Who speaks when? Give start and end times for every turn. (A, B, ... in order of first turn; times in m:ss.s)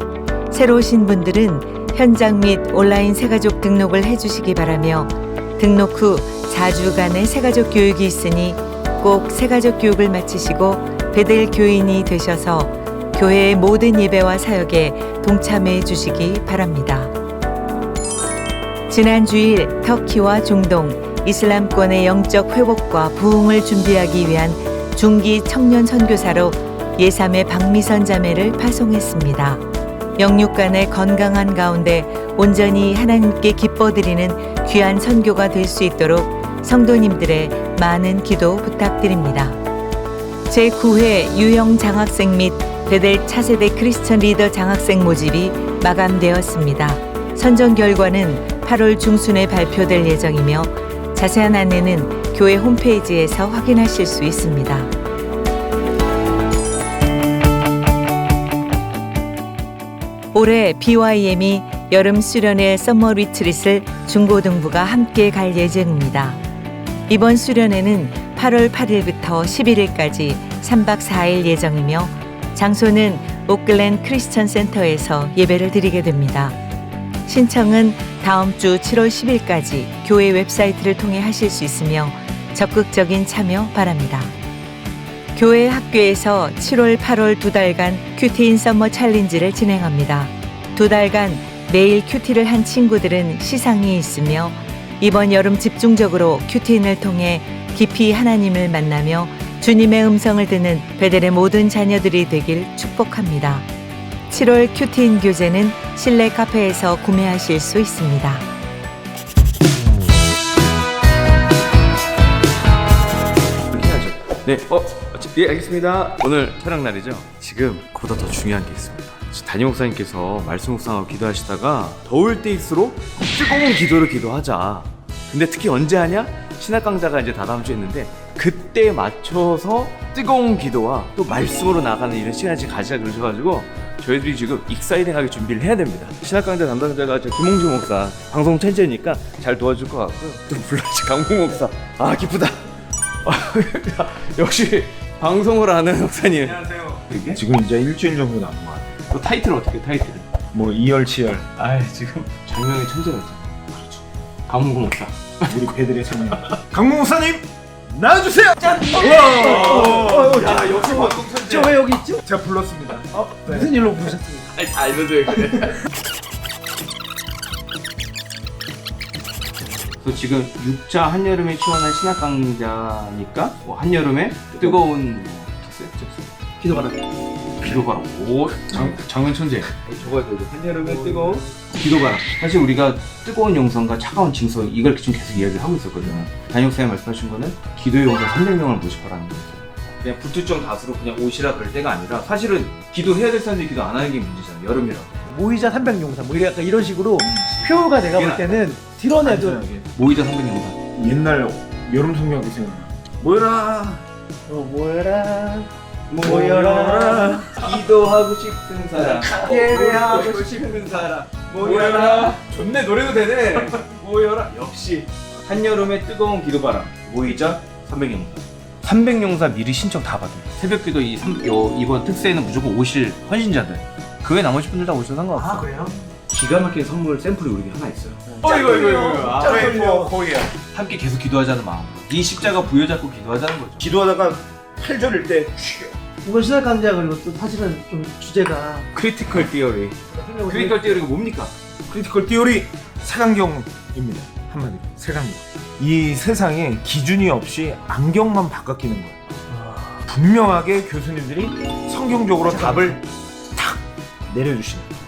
0:00.5-0:17.1 A
0:18.9-0:29.6 A
0:30.2-0:39.6 A
0:40.5-0:54.9 A
1:00.3-1:06.4 A
1:07.1-1:16.6 A
1:17.3-1:24.3 A
1:25.4-1:43.7 A
1:44.3-1:48.5 A
1:53.7-2:22.6 B
2:23.2-2:27.4 B
2:27.3-2:29.0 C
2:29.1-2:30.3 B
2:30.5-2:31.5 C
2:31.6-2:35.7 B
2:35.5-2:43.7 C
2:38.7-2:41.3 B
2:38.8-2:42.2 D
2:43.4-2:44.5 D
2:44.5-2:45.8 B
2:50.0-2:57.0 B
2:56.6-2:56.9 D
2:57.6-3:15.4 B
3:01.0-3:01.4 D
3:15.3-3:19.6 D
3:17.2-3:17.7 C
3:17.6-3:18.7 B
3:19.2-3:19.9 C
3:19.9-3:20.8 B
3:20.9-3:24.0 C
3:24.5-3:25.7 D
3:26.1-3:45.7 B
3:26.2-3:27.4 D
3:29.2-3:30.5 D
3:31.6-3:32.3 C
3:45.4-3:46.0 D
3:46.3-3:53.9 B
3:48.4-3:50.5 C
3:48.7-3:49.9 D
3:53.8-3:55.9 C
3:56.2-3:58.9 D
3:58.9-4:01.5 B
4:00.1-4:01.0 D
4:01.9-4:09.4 C
4:10.1-4:13.0 C
4:12.6-4:13.0 B
4:13.6-4:14.9 C